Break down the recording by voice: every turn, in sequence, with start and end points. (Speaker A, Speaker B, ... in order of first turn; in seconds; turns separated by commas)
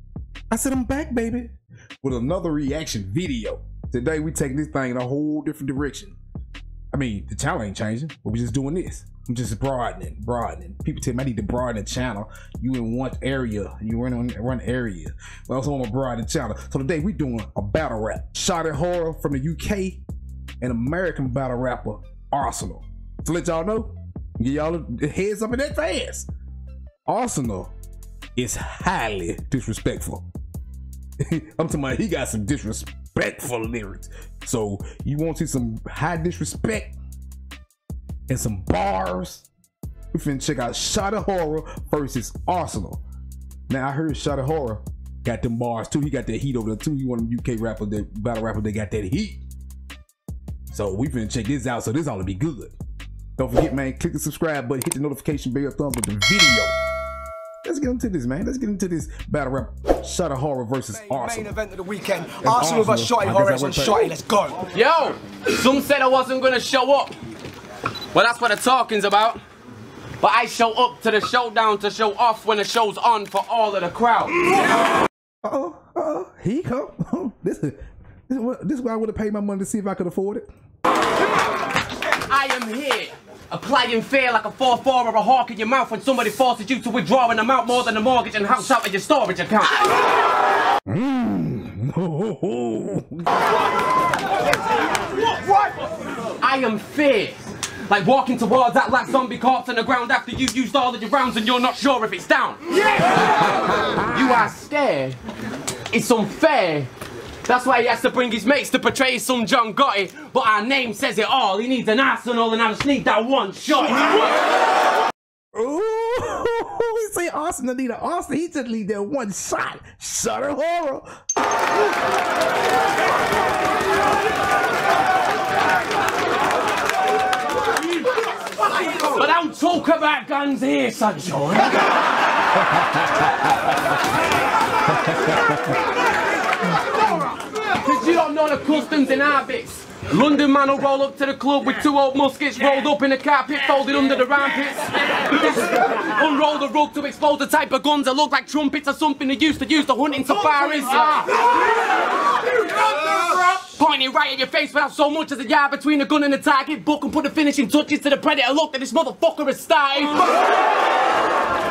Speaker A: 0.5-6.2, Speaker A: 6.9-20.0, Speaker A: 20.6-26.3, Speaker A: 27.1-27.7, Speaker A: 28.4-30.3, Speaker A: 31.2-36.9, Speaker A: 38.3-39.5, Speaker A: 40.1-43.0, Speaker A: 43.7-49.4, Speaker A: 50.7-52.7, Speaker A: 53.4-56.7, Speaker A: 57.6-61.5, Speaker B: 61.1-64.6, Speaker A: 62.5-64.2, Speaker C: 64.7-67.1, Speaker C: 68.1-69.4, Speaker C: 70.2-74.5, Speaker A: 75.4-80.5, Speaker C: 82.3-89.8, Speaker A: 90.9-93.3, Speaker C: 96.4-105.2, Speaker C: 105.9-106.9, Speaker C: 107.5-114.4, Speaker A: 115.5-121.1, Speaker C: 129.1-131.9, Speaker C: 137.8-151.4, Speaker C: 152.6-160.3